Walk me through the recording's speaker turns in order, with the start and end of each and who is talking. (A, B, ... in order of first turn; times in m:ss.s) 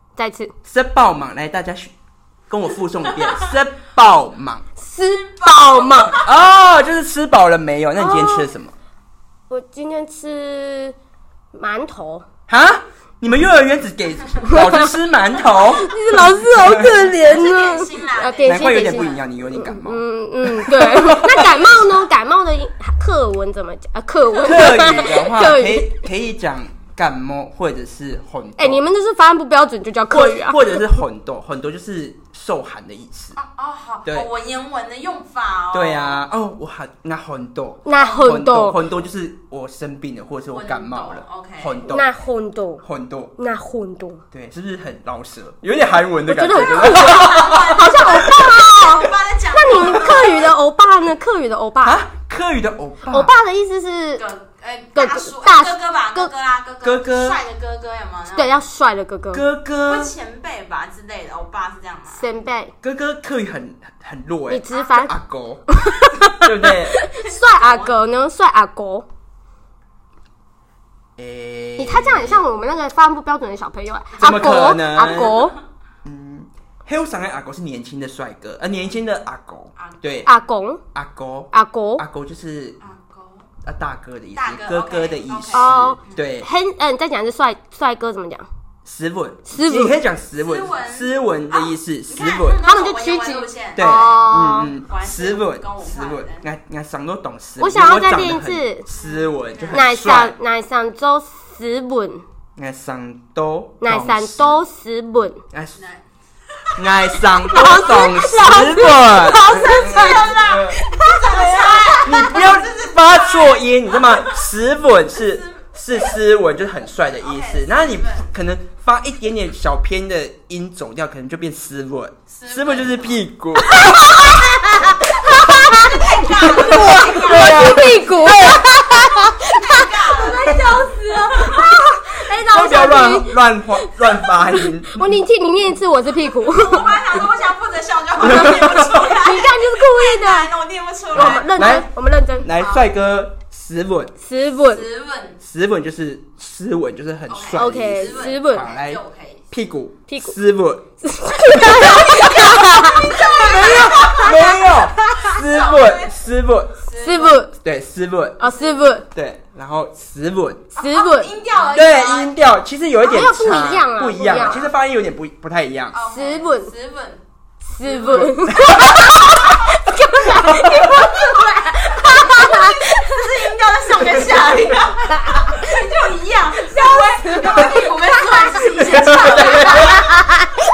0:00.2-0:00.6 A
0:00.6-0:01.9 B
0:02.5-0:04.7 B
0:03.1-0:03.6 C
0:04.8-0:06.2 A
0:05.0-0:06.4 C
0:06.0-0:08.8 B
0:08.0-0:08.6 A
0:09.5-0:11.0 A
0:11.5-0:12.3 A
0:12.5-0:17.2 B
0:14.4-0:14.9 A
0:15.5-0:26.0 A
0:17.2-0:19.2 C
0:18.4-0:21.9 B
0:21.5-0:21.9 C
0:24.3-0:25.1 C
0:24.4-0:28.8 B
0:28.6-0:30.9 A
0:30.1-0:33.4 B
0:33.4-0:36.3 C
0:35.7-0:42.1 B
0:37.8-0:38.8 A
0:37.9-0:38.3 C
0:40.5-0:41.9 C
0:41.9-0:42.8 A
0:42.8-0:43.3 B
0:43.4-0:44.2 A
0:44.3-0:48.3 B
0:46.3-0:52.0 A
0:46.8-0:50.5 C
0:51.8-0:53.3 B
0:53.1-0:54.2 A
0:54.2-0:58.6 C
0:55.0-0:56.3 A
0:56.8-0:57.4 B
0:58.4-0:59.5 A
0:59.3-1:00.1 B
0:59.8-1:02.3 C
1:02.1-1:02.7 A
1:02.8-1:05.6 B
1:04.5-1:05.1 A
1:05.7-1:09.1 A
1:06.4-1:07.0 B
1:07.1-1:08.0 C
1:11.2-1:12.4 B
1:11.8-1:15.6 A
1:14.2-1:15.4 B
1:15.1-1:15.5 C
1:16.0-1:20.3 B
1:19.8-1:20.3 C
1:20.2-1:20.8 A
1:20.9-1:22.8 B
1:21.5-1:22.0 A
1:22.8-1:23.5 C
1:23.6-1:26.5 B
1:24.4-1:26.3 C
1:25.5-1:28.5 A
1:28.8-1:32.7 B
1:29.5-1:30.0 A
1:30.4-1:36.5 C
1:32.6-1:34.7 A
1:33.8-1:40.4 B
1:37.6-1:38.9 A
1:38.9-1:39.8 C
1:39.7-1:42.2 A
1:42.6-1:44.6 B
1:43.8-1:45.4 A
1:45.5-1:45.8 B
1:45.8-1:46.0 C
1:46.6-1:48.3 C
1:46.8-1:50.8 B
1:47.5-1:52.0 A
1:49.5-1:54.5 C
1:52.0-2:04.1 B
1:55.1-1:56.1 C
1:57.1-1:58.3 C
2:02.3-2:03.2 C
2:03.7-2:16.9 A
2:03.8-2:04.0 C
2:05.3-2:08.1 C
2:06.7-2:08.0 B
2:09.4-2:11.7 C
2:12.3-2:15.2 B
2:16.3-2:21.9 C
2:18.3-2:18.6 B
2:19.1-2:20.5 A
2:21.2-2:21.9 B
2:21.2-2:22.5 A
2:22.4-2:24.2 B
2:22.5-2:22.9 C
2:24.2-2:24.9 A
2:24.5-2:25.4 C
2:25.4-2:29.0 B
2:27.3-2:29.4 C
2:27.6-2:28.7 A
2:29.5-2:30.8 B
2:30.1-2:30.4 A
2:31.0-2:34.7 A
2:31.7-2:36.2 C
2:31.8-2:32.6 B
2:33.2-2:36.8 B
2:36.8-2:37.5 C
2:37.0-2:37.5 A
2:37.6-2:38.4 B
2:38.4-2:39.1 A
2:38.4-2:39.0 C
2:39.1-2:40.7 B
2:40.8-2:41.3 A
2:40.8-2:42.4 C
2:41.6-2:46.0 B
2:43.0-2:44.7 A
2:45.9-2:47.2 C
2:46.1-2:46.7 A
2:47.7-2:53.2 A
2:47.8-2:48.3 C
2:48.1-2:49.4 B
2:50.2-2:51.2 B
2:52.1-3:00.1 C
2:55.1-2:55.8 A
2:56.7-2:57.8 A
2:58.3-2:58.6 A
2:58.8-3:00.2 B
2:59.3-3:00.4 A